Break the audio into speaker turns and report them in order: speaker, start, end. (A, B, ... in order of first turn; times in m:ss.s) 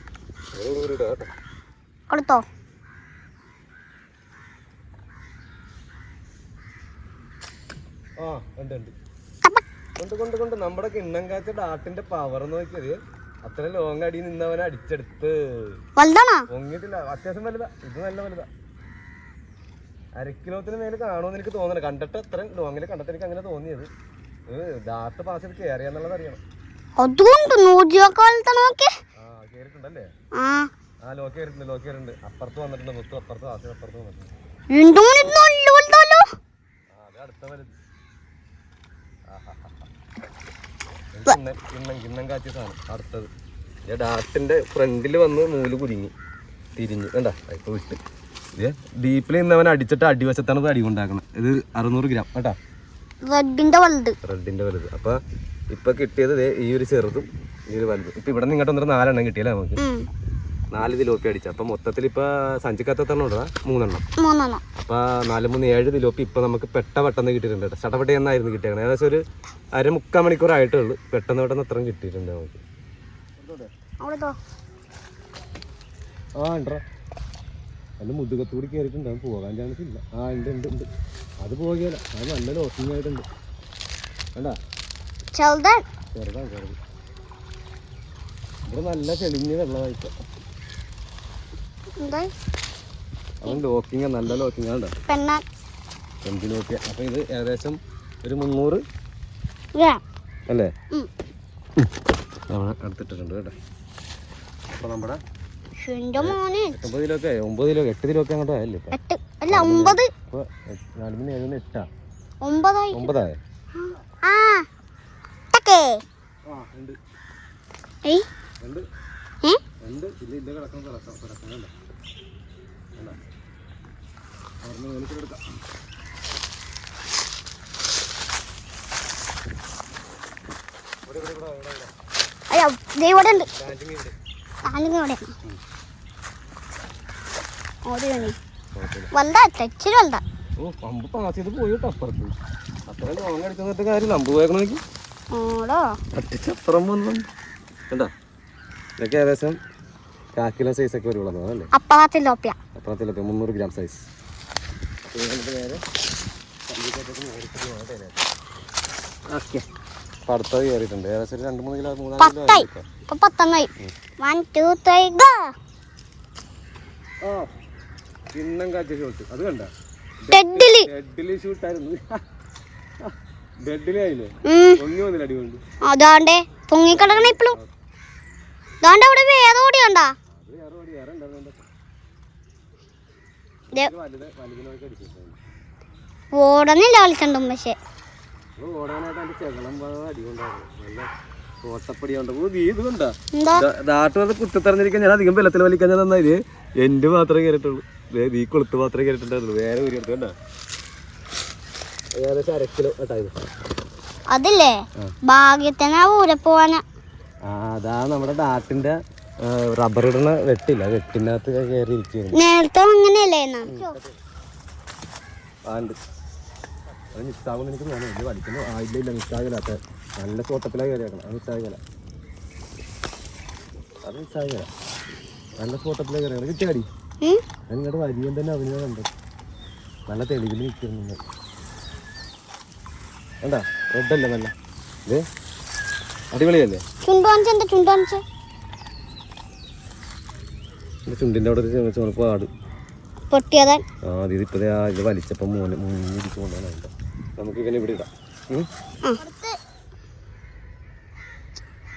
0:00.5-0:01.3 A
0:02.1-0:02.4 B
0:08.2-0:08.9 A
0:10.0-0:15.8 A
0:16.0-0:16.4 B
0:16.5-0:18.5 A
0:20.2-0:23.9 A
0:24.5-0:26.4 A
0:27.0-0:29.0 B
0:29.2-0:30.1 A
0:30.3-0:30.7 B
0:31.0-0:34.3 A
0:34.7-0:36.3 B
0:36.9-0:37.7 A
0:39.3-0:39.8 A
0:41.1-0:43.3 A
0:43.8-0:46.1 A
0:46.8-0:48.0 A
0:48.5-0:52.6 A
0:53.2-0:54.2 B
0:54.2-0:55.2 A
0:55.7-0:59.8 A
0:59.8-1:00.1 B
1:00.7-1:04.0 A
1:04.2-1:04.6 B
1:04.8-1:09.2 A
1:09.7-1:12.6 A
1:13.4-1:13.7 A
1:14.0-1:14.4 B
1:16.4-1:16.8 A
1:18.0-1:20.9 A
1:21.4-1:23.2 A
1:25.3-1:25.8 B
1:26.1-1:26.8 A
1:28.7-1:30.2 A
1:32.0-1:32.3 B
1:33.4-1:35.0 A
1:35.1-1:35.4 B
1:36.2-1:38.8 A
1:39.7-1:40.0 B
1:42.5-1:43.6 A
1:44.7-1:45.2 A
1:45.8-1:46.8 B
1:46.2-1:49.0 A
1:48.9-1:50.1 B
1:49.5-1:51.9 A
1:52.4-1:53.1 B
1:52.9-1:53.4 A
1:53.8-1:54.7 B
1:55.5-1:56.0 B
1:56.5-1:57.0 A
1:59.8-2:01.7 A
2:04.6-2:05.4 A
2:11.0-2:11.9 A
2:12.5-2:13.5 B
2:13.5-2:14.1 A
2:14.6-2:15.3 B
2:17.8-2:18.4 B
2:18.7-2:19.1 A
2:19.1-2:20.2 B
2:20.6-2:22.3 A
2:22.9-2:24.8 A
2:25.3-2:25.9 B
2:26.1-2:27.3 A
2:29.0-2:29.6 A
2:30.3-2:31.7 A
2:31.7-2:32.6 B
2:32.7-2:34.1 A
2:35.1-2:35.8 A
2:36.7-2:38.2 A
2:39.3-2:39.6 A
2:40.3-2:42.9 A
2:42.2-2:45.5 B
2:47.2-2:47.5 A
2:48.3-2:52.2 A
2:50.3-2:50.9 B
2:53.6-2:55.6 A
2:54.4-2:54.8 B
2:55.8-2:57.5 B
2:56.9-2:57.7 A
2:58.8-3:00.1 B
3:00.3-3:01.6 A
3:03.7-3:05.4 A
3:06.3-3:07.8 B
3:08.6-3:11.1 A
3:11.6-3:20.3 A
3:13.3-3:13.6 B
3:22.2-3:23.4 A
3:24.3-3:26.8 B
3:27.4-3:32.4 A
3:32.3-3:33.9 B
3:33.6-3:34.1 A
3:35.7-3:36.0 A
3:37.1-3:41.8 A
3:44.0-3:44.7 A
3:45.6-3:46.9 A
3:47.7-3:49.1 A
3:50.1-3:51.2 A
3:53.4-3:54.5 A
3:56.3-3:56.8 A
3:57.0-3:58.2 B
4:01.0-4:02.5 A
4:03.3-4:03.8 B
4:04.0-4:08.7 A
4:09.0-4:09.6 B